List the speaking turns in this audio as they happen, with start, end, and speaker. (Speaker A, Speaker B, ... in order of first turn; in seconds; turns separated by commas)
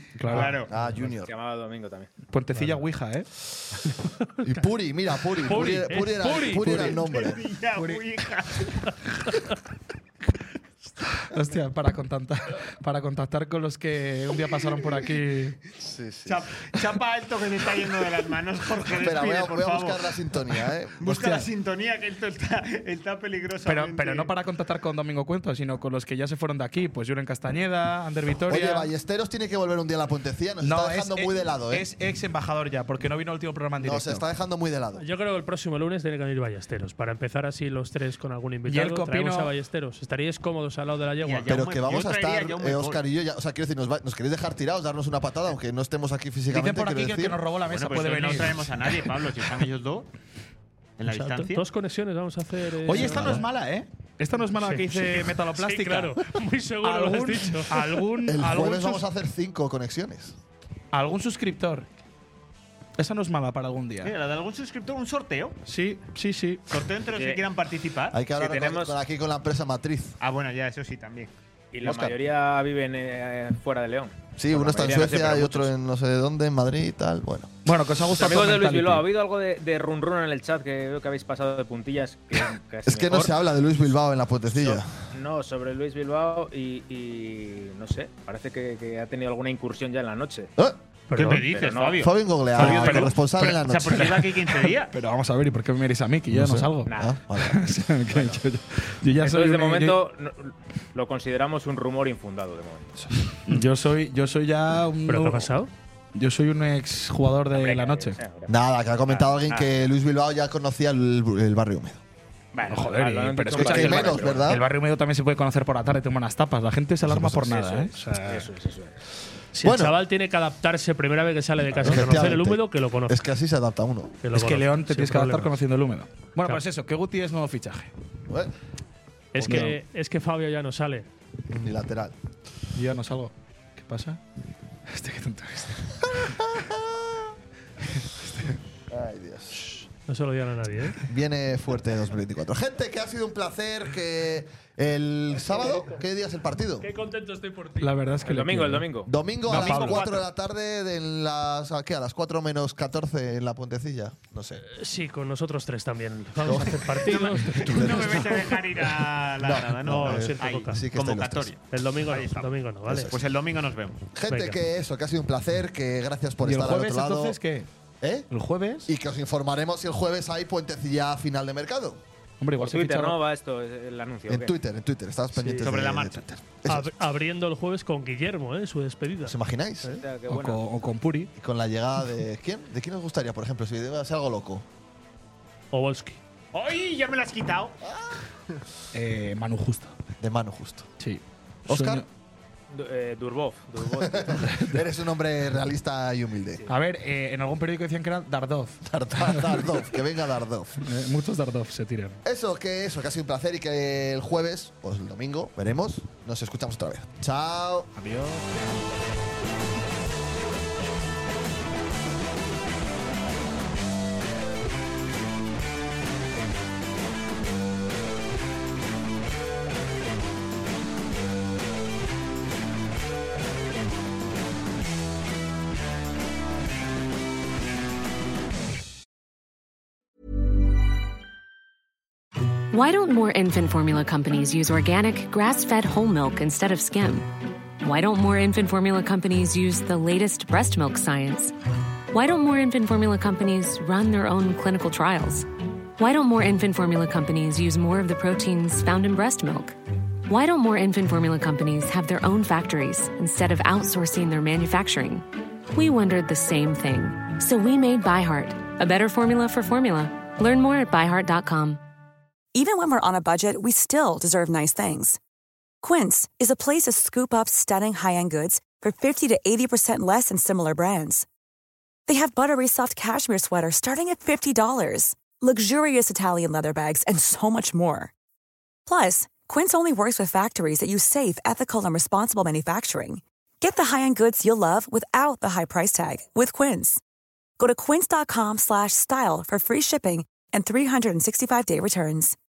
Speaker A: 0.2-0.6, Speaker B: 0.3-2.8, Speaker C: 0.3-0.7, Speaker D: 0.7-1.3, Speaker A: 2.3-3.3, Speaker D: 4.4-7.4, Speaker E: 5.5-7.0, Speaker C: 6.7-8.9, Speaker A: 7.8-8.0, Speaker A: 11.3-15.6, Speaker D: 15.8-16.4, Speaker C: 16.3-20.2, Speaker D: 19.0-21.4, Speaker C: 21.0-24.3, Speaker A: 23.6-28.9, Speaker D: 28.5-31.9, Speaker A: 30.6-34.2, Speaker D: 33.8-35.0, Speaker E: 35.0-41.7, Speaker A: 38.7-39.5, Speaker C: 41.2-43.0, Speaker D: 41.5-47.4, Speaker A: 46.5-49.0, Speaker C: 47.7-50.1, Speaker C: 51.0-51.7, Speaker E: 51.1-53.4, Speaker A: 52.9-56.3, Speaker D: 52.9-53.4, Speaker E: 54.6-57.8, Speaker A: 56.8-59.0, Speaker D: 58.2-60.4, Speaker A: 60.9-61.9, Speaker A: 63.0-64.1, Speaker C: 64.0-65.6, Speaker A: 65.7-66.8, Speaker C: 66.7-68.7, Speaker B: 67.1-67.5, Speaker D: 68.1-70.2, Speaker B: 68.4-69.0, Speaker C: 70.2-71.3, Speaker B: 71.7-75.7, Speaker D: 71.8-72.2, Speaker D: 74.4-77.5, Speaker A: 77.7-79.1, Speaker B: 78.1-83.4, Speaker D: 82.9-85.1, Speaker B: 84.6-90.5, Speaker E: 91.1-91.5, Speaker C: 91.1-94.9, Speaker B: 91.5-92.1, Speaker D: 92.0-94.2, Speaker A: 92.5-100.0, Speaker D: 96.3-97.8, Speaker B: 96.9-97.2, Speaker B: 98.1-98.4, Speaker B: 99.2-102.9, Speaker A: 103.5-105.6, Speaker E: 105.1-105.7, Speaker A: 106.2-108.2, Speaker B: 107.5-108.5, Speaker D: 108.5-112.0, Speaker B: 109.1-109.9, Speaker B: 112.5-114.6, Speaker A: 112.7-118.5, Speaker D: 113.5-114.6, Speaker D: 117.0-117.5, Speaker B: 117.2-119.0, Speaker E: 119.5-123.3, Speaker D: 119.6-120.0, Speaker D: 121.8-124.2, Speaker A: 121.8-122.4, Speaker E: 124.2-125.5, Speaker A: 124.3-127.9, Speaker E: 129.3-131.1, Speaker D: 129.4-129.7, Speaker A: 129.4-129.8, Speaker D: 131.5-132.2, Speaker A: 132.8-134.2, Speaker A: 134.9-136.2, Speaker D: 136.2-137.3, Speaker A: 137.9-138.6, Speaker D: 138.9-139.7, Speaker E: 140.0-141.0, Speaker D: 141.1-146.9, Speaker E: 145.4-146.0, Speaker E: 146.8-147.9, Speaker A: 147.8-148.9, Speaker B: 148.2-149.1, Speaker D: 149.1-154.6, Speaker A: 149.5-150.1, Speaker C: 149.5-150.1, Speaker E: 154.7-157.6, Speaker D: 156.4-158.6, Speaker C: 157.1-162.6, Speaker A: 157.1-158.0, Speaker D: 159.4-161.5, Speaker E: 159.9-160.8, Speaker E: 161.7-163.2, Speaker D: 162.9-163.2, Speaker C: 163.1-164.0, Speaker D: 164.1-167.4, Speaker E: 164.3-164.6, Speaker A: 166.4-167.7, Speaker D: 168.0-168.3, Speaker A: 168.3-168.9, Speaker D: 168.9-172.0, Speaker A: 172.4-173.2, Speaker B: 172.6-174.6, Speaker D: 174.3-176.9, Speaker C: 175.6-176.3, Speaker E: 176.7-179.4, Speaker D: 179.2-180.0, Speaker B: 179.9-180.8, Speaker A: 180.3-181.3, Speaker D: 181.4-184.7, Speaker E: 185.7-186.2, Speaker C: 186.5-187.8, Speaker A: 188.9-189.9, Speaker D: 190.2-190.9, Speaker A: 191.0-192.1, Speaker D: 191.7-192.1, Speaker B: 192.7-194.5, Speaker D: 193.9-196.6, Speaker A: 194.4-194.8, Speaker A: 196.7-198.8, Speaker D: 198.8-200.8, Speaker A: 200.8-202.2, Speaker D: 202.2-207.9, Speaker A: 208.0-208.8, Speaker F: 232.7-237.3, Speaker F: 237.8-241.6, Speaker F: 242.1-245.5, Speaker F: 246.0-249.8, Speaker F: 250.3-261.8, Speaker G: 262.5-265.2, Speaker G: 265.8-271.3, Speaker G: 272.1-278.1, Speaker G: 278.9-287.0, Speaker G: 287.6-292.4